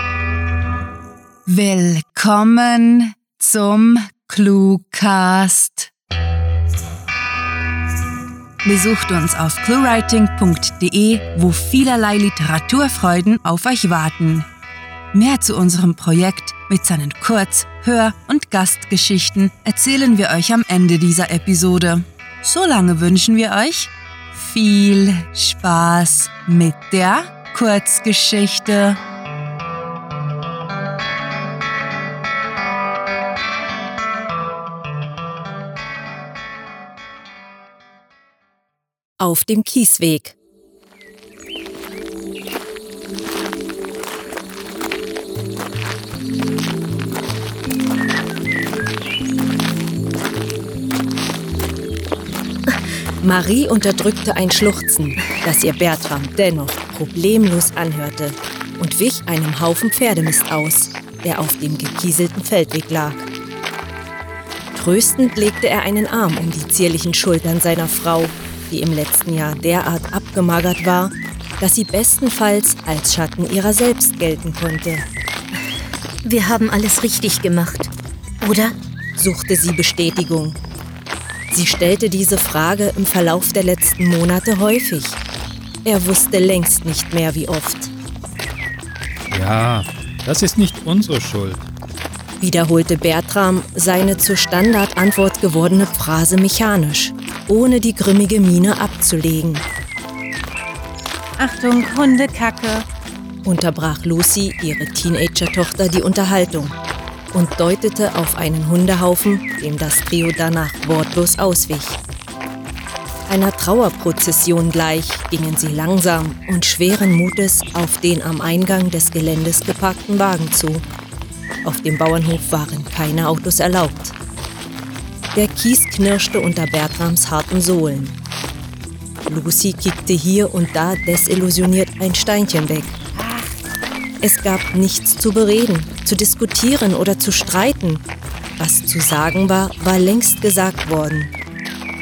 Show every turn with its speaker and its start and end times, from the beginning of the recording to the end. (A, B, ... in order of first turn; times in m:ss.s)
0:01.5-0:05.9 A
0:08.6-0:14.5 A
0:15.1-0:29.0 A
0:39.2-0:40.4 B
0:53.2-1:03.3 B
1:04.8-1:15.1 B
1:16.2-1:18.8 C
1:19.2-1:20.6 B
1:21.5-1:25.2 B
1:25.8-1:27.9 B
1:29.3-1:31.6 D
1:32.4-1:39.6 B
1:41.4-1:42.8 E
1:43.4-1:46.8 B
1:47.3-1:52.0 B
1:53.3-2:00.8 B
2:01.6-2:04.2 B
2:05.3-2:08.2 B
2:09.3-2:13.0 B
2:13.2-2:13.6 E
2:14.2-2:18.0 B
2:18.6-2:21.3 B